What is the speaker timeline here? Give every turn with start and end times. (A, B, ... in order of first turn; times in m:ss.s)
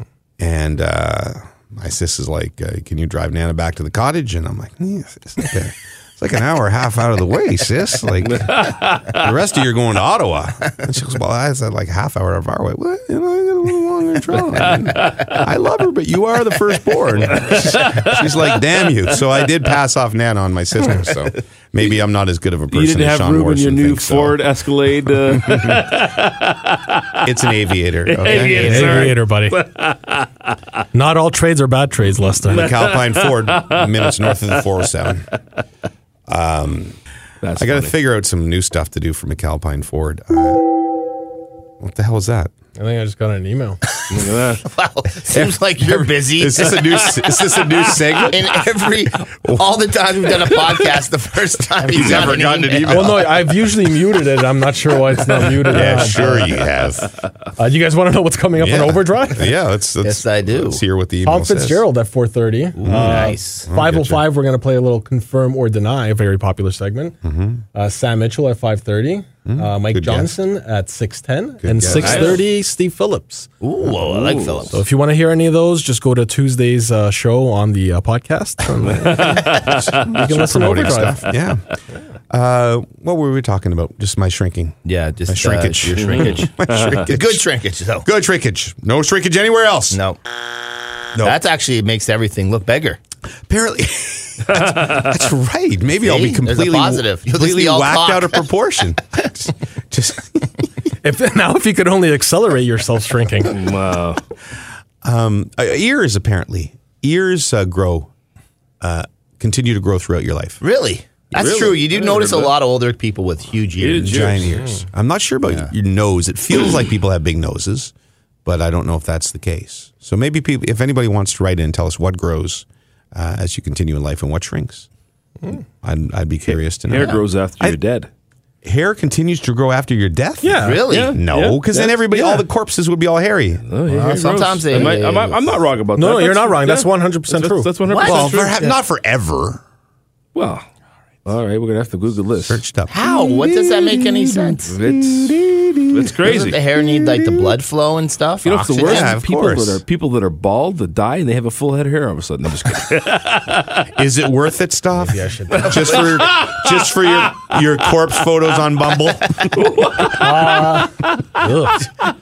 0:00.4-0:24.4 A
0:08.2-0:09.2 B
0:14.7-0:15.4 B
0:17.3-0:18.4 B
0:22.7-0:27.3 B
0:25.3-0:25.9 A
0:27.2-0:29.1 A
0:28.0-0:30.6 B
0:28.5-0:29.6 C
0:30.9-0:32.7 C
0:32.5-0:35.3 A
0:32.5-0:34.6 B
0:36.3-0:37.0 A
0:37.4-0:37.9 B
0:37.6-0:40.7 A
0:41.8-0:42.5 A
0:42.8-0:43.8 C
0:44.1-0:44.6 B
0:44.1-0:53.2 D
0:45.3-0:48.6 A
0:51.8-0:53.5 A
0:52.9-0:56.5 C
0:55.7-0:57.1 A
0:56.1-0:56.6 D
0:57.6-0:59.5 C
0:58.6-1:01.8 A
1:00.0-1:00.8 D
1:01.2-1:07.2 C
1:02.7-1:03.7 D
1:02.8-1:04.2 A
1:07.2-1:07.6 A
1:07.7-1:13.5 C
1:09.4-1:10.3 A
1:11.6-1:12.4 A
1:11.8-1:12.4 B
1:13.6-1:14.8 D
1:13.9-1:14.7 B
1:14.7-1:21.2 C
1:18.9-1:20.3 B
1:19.7-1:21.6 A
1:22.3-1:27.4 A
1:24.8-1:28.1 D
1:26.0-1:27.0 B
1:28.0-1:30.0 A
1:29.9-1:30.2 D
1:31.2-1:33.0 D
1:33.5-1:40.6 A
1:34.5-1:35.2 B
1:36.0-1:38.4 D
1:41.0-1:43.6 C
1:43.5-1:44.2 B
1:45.0-1:48.1 A
1:48.8-1:50.6 A
1:50.6-1:54.5 D
1:51.3-1:52.5 B
1:53.8-1:54.6 B
1:54.0-1:57.9 A
1:58.4-2:04.9 A
2:05.8-2:07.8 A
2:06.9-2:08.1 B
2:06.9-2:07.2 D
2:08.6-2:13.6 A
2:10.4-2:10.8 C
2:10.6-2:11.2 D
2:10.9-2:12.4 B
2:13.7-2:18.6 B
2:13.9-2:15.4 D
2:16.0-2:17.7 C
2:17.9-2:18.8 D
2:18.0-2:19.6 A
2:20.3-2:20.6 B
2:21.2-2:22.6 B
2:22.5-2:27.5 A
2:22.9-2:24.8 D
2:24.7-2:25.4 B
2:25.9-2:26.6 B
2:26.2-2:29.1 D
2:28.4-2:33.9 B
2:28.8-2:29.8 A
2:33.9-2:39.7 A
2:35.1-2:35.6 C
2:35.5-2:36.0 D
2:35.5-2:37.6 B
2:39.4-2:41.5 B
2:40.1-2:41.9 C